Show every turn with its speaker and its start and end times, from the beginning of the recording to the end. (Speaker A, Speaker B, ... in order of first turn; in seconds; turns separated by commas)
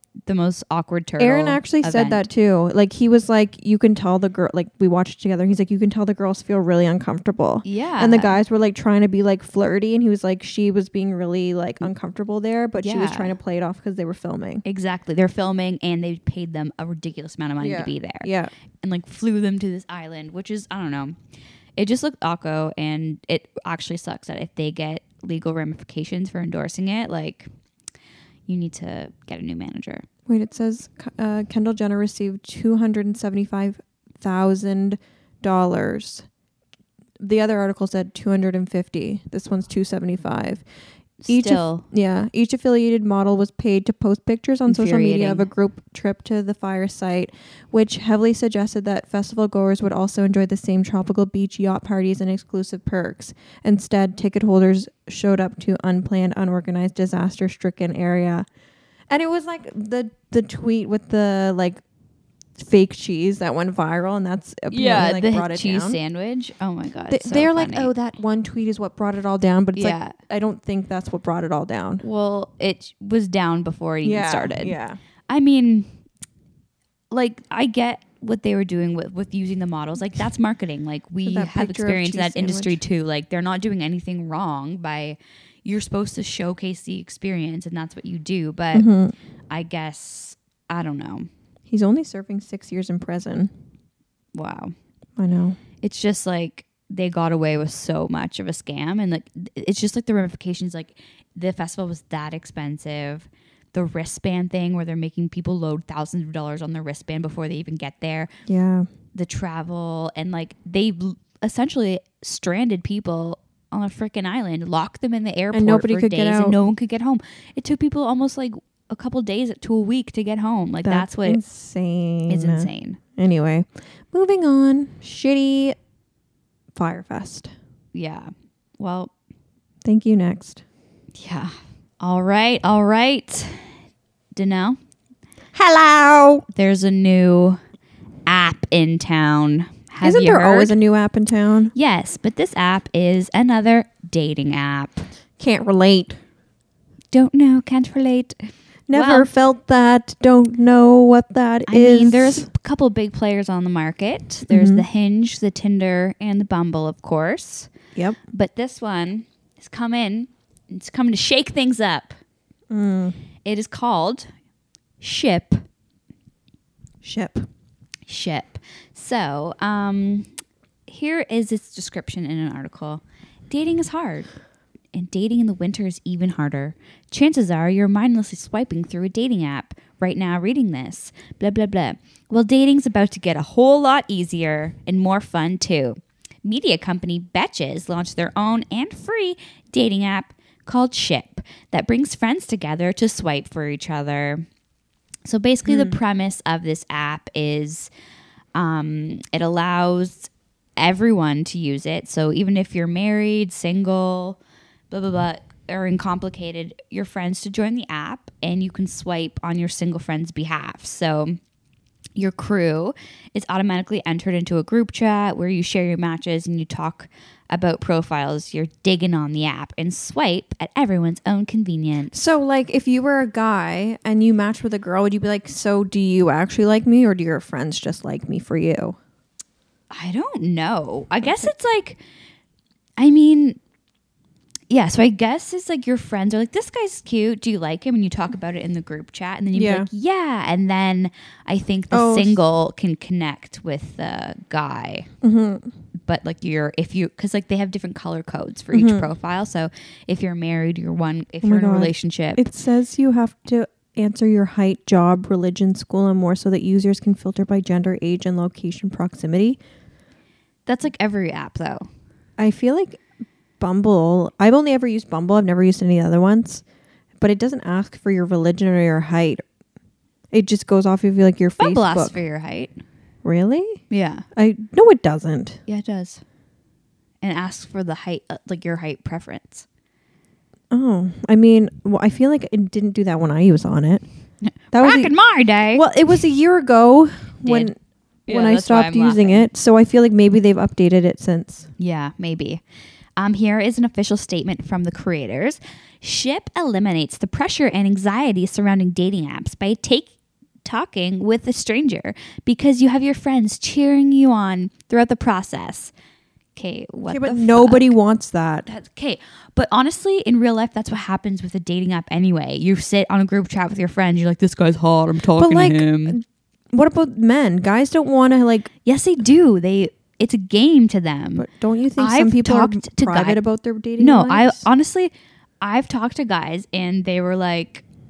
Speaker A: 0.2-2.2, Speaker B: 1.2-14.6, Speaker A: 7.6-8.4, Speaker A: 12.8-13.4, Speaker A: 14.6-21.2, Speaker B: 17.6-18.5, Speaker A: 21.8-27.5, Speaker A: 28.5-30.1, Speaker B: 30.3-36.2, Speaker B: 37.2-40.6, Speaker A: 41.2-41.8, Speaker B: 41.3-58.5, Speaker A: 44.7-45.5, Speaker B: 59.1-61.8, Speaker B: 62.5-66.0, Speaker A: 64.7-67.9, Speaker B: 67.1-72.0, Speaker A: 69.8-70.2, Speaker A: 72.0-74.8, Speaker B: 74.0-75.0, Speaker A: 75.3-75.9, Speaker A: 77.1-88.9, Speaker B: 81.2-82.8, Speaker B: 88.7-89.1, Speaker A: 89.5-91.3, Speaker B: 91.7-93.5, Speaker A: 94.3-94.7, Speaker B: 95.2-95.6, Speaker A: 95.8-108.3, Speaker B: 108.5-108.9, Speaker A: 109.1-121.4, Speaker B: 115.5-116.6, Speaker B: 120.8-125.7, Speaker A: 122.3-123.0, Speaker B: 126.7-127.5, Speaker A: 127.9-129.1, Speaker B: 129.8-130.6, Speaker A: 131.1-133.7, Speaker A: 134.3-134.8, Speaker B: 135.5-136.4, Speaker A: 136.5-137.6, Speaker A: 138.2-140.7, Speaker B: 140.0-141.7, Speaker A: 141.7-145.1, Speaker B: 145.4-146.2, Speaker A: 147.1-149.3, Speaker B: 148.9-152.5, Speaker A: 151.7-157.7, Speaker B: 154.5-154.8, Speaker A: 158.3-162.2, Speaker B: 162.7-163.2, Speaker A: 163.4-164.3, Speaker A: 165.0-165.6, Speaker B: 167.0-167.5, Speaker A: 168.1-170.3, Speaker A: 170.9-174.3, Speaker A: 174.9-194.4, Speaker A: 195.2-197.9, Speaker B: 195.7-196.0, Speaker A: 198.5-204.4, Speaker A: 204.9-211.4, Speaker A: 212.2-222.2, Speaker B: 222.1-229.0, Speaker A: 229.9-232.0, Speaker B: 231.2-231.5, Speaker A: 233.0-233.6, Speaker A: 234.7-245.1, Speaker B: 239.5-239.9, Speaker B: 241.9-242.4, Speaker B: 245.2-245.7, Speaker A: 246.1-252.4, Speaker B: 248.7-249.1, Speaker B: 251.4-259.6, Speaker A: 260.6-261.9, Speaker B: 262.4-263.0, Speaker B: 263.6-266.6, Speaker B: 267.2-269.4, Speaker B: 270.3-272.2, Speaker A: 271.6-272.7, Speaker B: 273.2-273.8, Speaker A: 273.9-274.2, Speaker B: 274.3-275.6, Speaker A: 275.7-276.2, Speaker A: 277.2-279.6, Speaker B: 280.7-284.0, Speaker A: 284.4-285.9, Speaker B: 284.7-285.1, Speaker B: 285.7-287.7, Speaker A: 287.4-287.7, Speaker A: 288.3-289.5, Speaker B: 288.3-291.7, Speaker A: 291.8-292.6, Speaker A: 293.2-300.1, Speaker A: 300.6-305.9, Speaker A: 306.6-307.9, Speaker B: 307.1-308.7, Speaker A: 308.6-316.2, Speaker B: 315.4-318.7, Speaker A: 318.8-321.4, Speaker B: 321.4-324.6, Speaker A: 322.0-323.4, Speaker A: 324.0-327.8